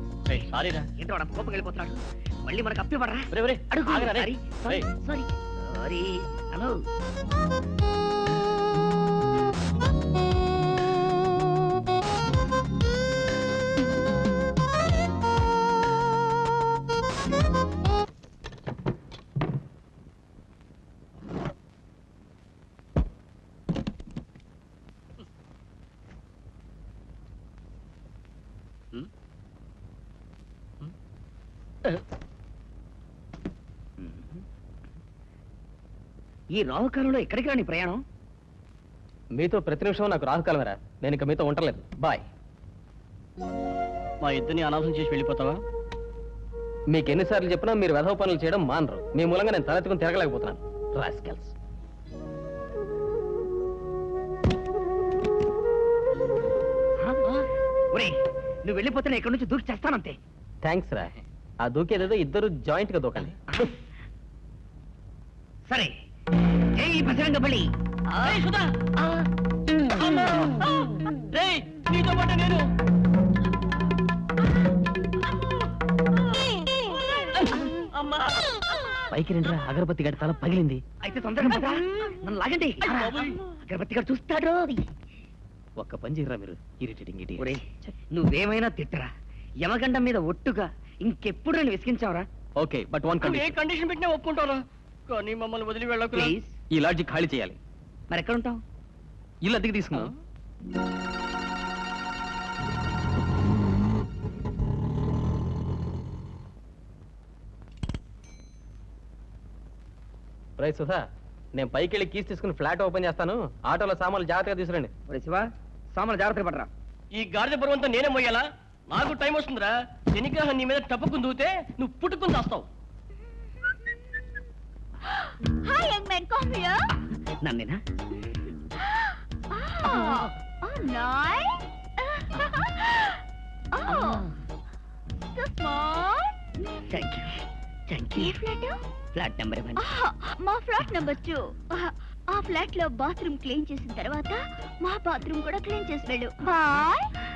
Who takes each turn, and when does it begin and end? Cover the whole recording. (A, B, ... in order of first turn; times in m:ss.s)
0:00.3-0:00.9 A
0:01.0-0:06.8 B
0:03.3-0:04.9 A
0:34.0-0:34.4 B
0:36.5-0:38.0 B
0:39.4-0:42.2 C
0:44.2-0:45.6 A
0:46.9-0:51.5 C
0:57.0-0:57.3 B
0:57.9-1:00.2 B
1:00.6-1:01.1 C
1:01.6-1:03.4 C
1:05.7-1:05.9 B
1:06.8-1:08.4 B
1:08.2-1:09.3 A
1:10.0-1:12.7 A
1:17.2-1:18.4 A
1:19.1-1:20.8 C
1:21.0-1:24.9 B
1:22.8-1:23.4 A
1:25.8-1:27.9 C
1:27.4-1:29.1 B
1:29.6-1:32.3 B
1:32.6-1:33.5 C
1:33.2-1:36.3 A
1:36.1-1:36.6 B
1:36.7-1:37.6 C
1:38.1-1:38.6 B
1:39.4-1:40.1 C
1:50.6-1:51.0 C
1:51.6-1:54.9 C
1:55.1-1:56.7 B
1:57.1-2:02.7 A
2:05.1-2:06.9 D
2:07.4-2:07.8 B
2:08.8-2:14.3 D
2:09.8-2:10.3 B
2:15.3-2:16.3 D
2:16.9-2:18.4 B
2:18.2-2:18.8 D
2:19.1-2:19.8 B
2:19.8-2:27.1 D